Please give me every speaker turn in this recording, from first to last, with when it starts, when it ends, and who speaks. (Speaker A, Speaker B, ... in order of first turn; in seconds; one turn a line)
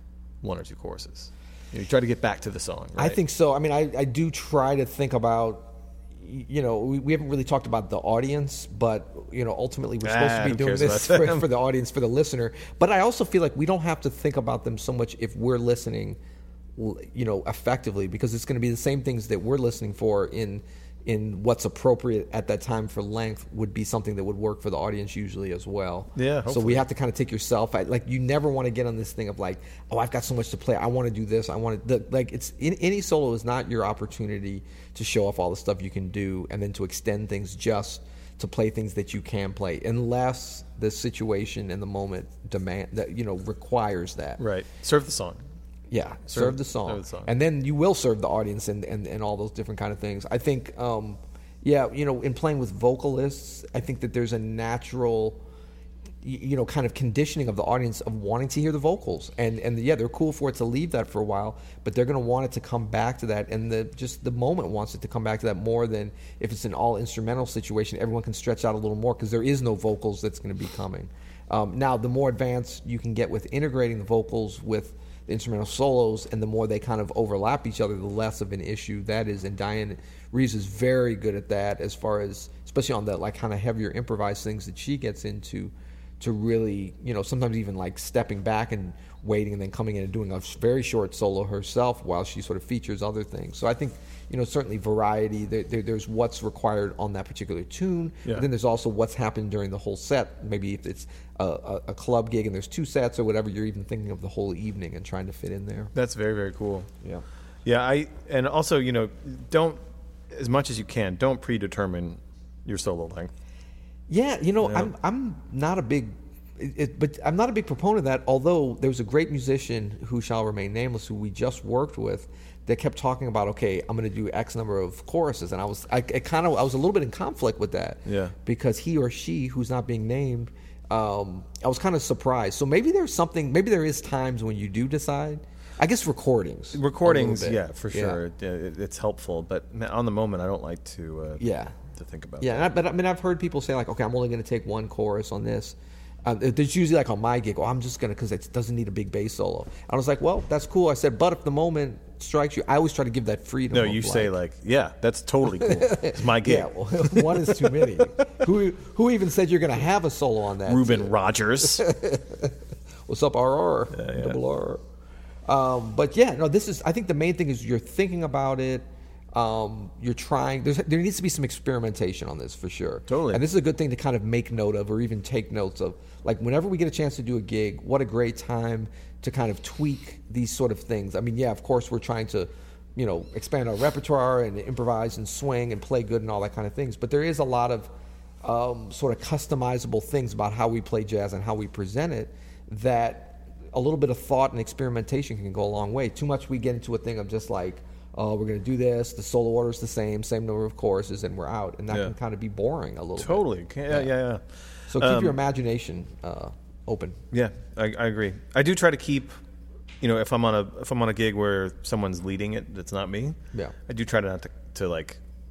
Speaker A: 0.4-3.2
Speaker B: 3.0-16.2
Speaker A: 10.0-11.5
Speaker B: 16.8-44.4
Speaker A: 26.1-26.9
Speaker A: 44.4-45.4
Speaker B: 45.9-55.4
Speaker A: 46.3-47.3
Speaker B: 56.2-105.9
Speaker A: 105.9-106.9
Speaker A: 107.7-109.8
Speaker A: 110.3-113.3
Speaker B: 114.1-138.2
Speaker A: 114.6-114.9
Speaker A: 128.1-128.3
Speaker A: 136.7-142.7
Speaker B: 141.4-141.7
Speaker B: 142.4-154.4
Speaker A: 153.7-157.7
Speaker B: 155.6-162.5
Speaker A: 160.7-161.9
Speaker B: 163.1-164.8
Speaker A: 163.9-164.4
Speaker B: 165.5-187.9
Speaker A: 173.1-173.4
Speaker B: 188.4-204.1
Speaker A: 203.2-204.4
Speaker B: 204.9-207.2
Speaker A: 205.0-205.4
Speaker A: 207.3-209.3
Speaker A: 210.0-213.4
Speaker A: 213.9-215.2